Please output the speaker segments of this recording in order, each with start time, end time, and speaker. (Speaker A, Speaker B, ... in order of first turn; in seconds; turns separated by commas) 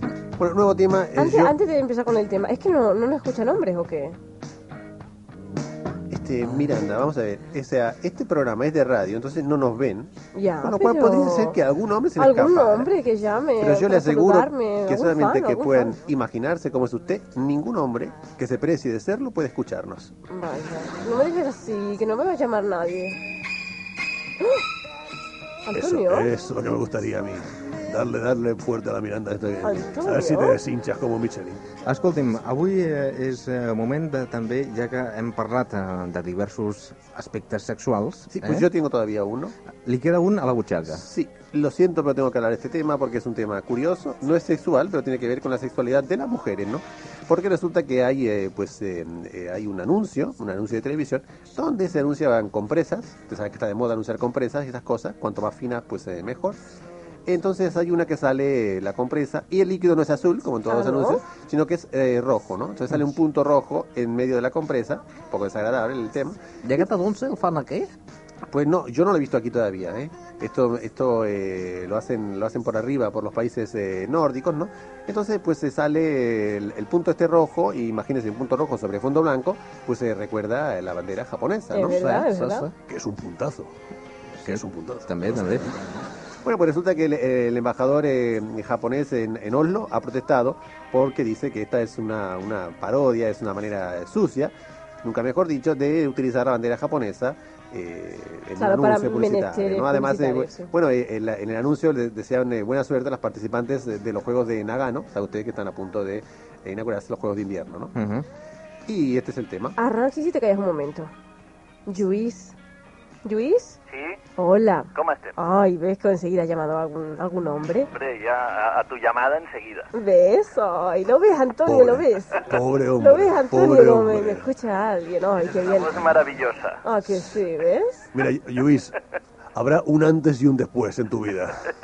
Speaker A: 0.4-1.5, Speaker B: 1.2-4.2, Speaker A: 6.1-12.9, Speaker B: 10.3-11.6, Speaker B: 12.2-16.0, Speaker A: 13.6-20.1, Speaker B: 20.3-23.2, Speaker B: 24.4-24.6, Speaker B: 25.7-26.3, Speaker C: 25.7-31.6, Speaker B: 29.6-30.6, Speaker D: 31.9-38.7, Speaker A: 38.3-39.5, Speaker D: 39.9-41.0, Speaker A: 40.9-56.6, Speaker A: 57.3-66.9, Speaker B: 60.7-61.2, Speaker E: 66.6-67.9, Speaker A: 68.5-82.0, Speaker B: 81.7-82.7, Speaker E: 81.9-82.7, Speaker C: 82.9-83.7, Speaker C: 84.4-85.7, Speaker D: 84.5-85.8, Speaker A: 86.4-94.5, Speaker A: 95.0-107.9, Speaker B: 98.6-100.7, Speaker D: 108.0-108.3, Speaker A: 108.9-109.7, Speaker B: 109.8-111.1, Speaker B: 111.9-112.5, Speaker B: 113.2-113.8, Speaker F: 113.9-114.2, Speaker B: 114.4-117.9, Speaker F: 115.0-115.3, Speaker F: 117.9-119.9, Speaker B: 119.9-126.0, Speaker C: 121.7-124.5, Speaker F: 125.4-126.8, Speaker B: 126.8-128.1, Speaker C: 128.1-128.9, Speaker C: 129.6-131.7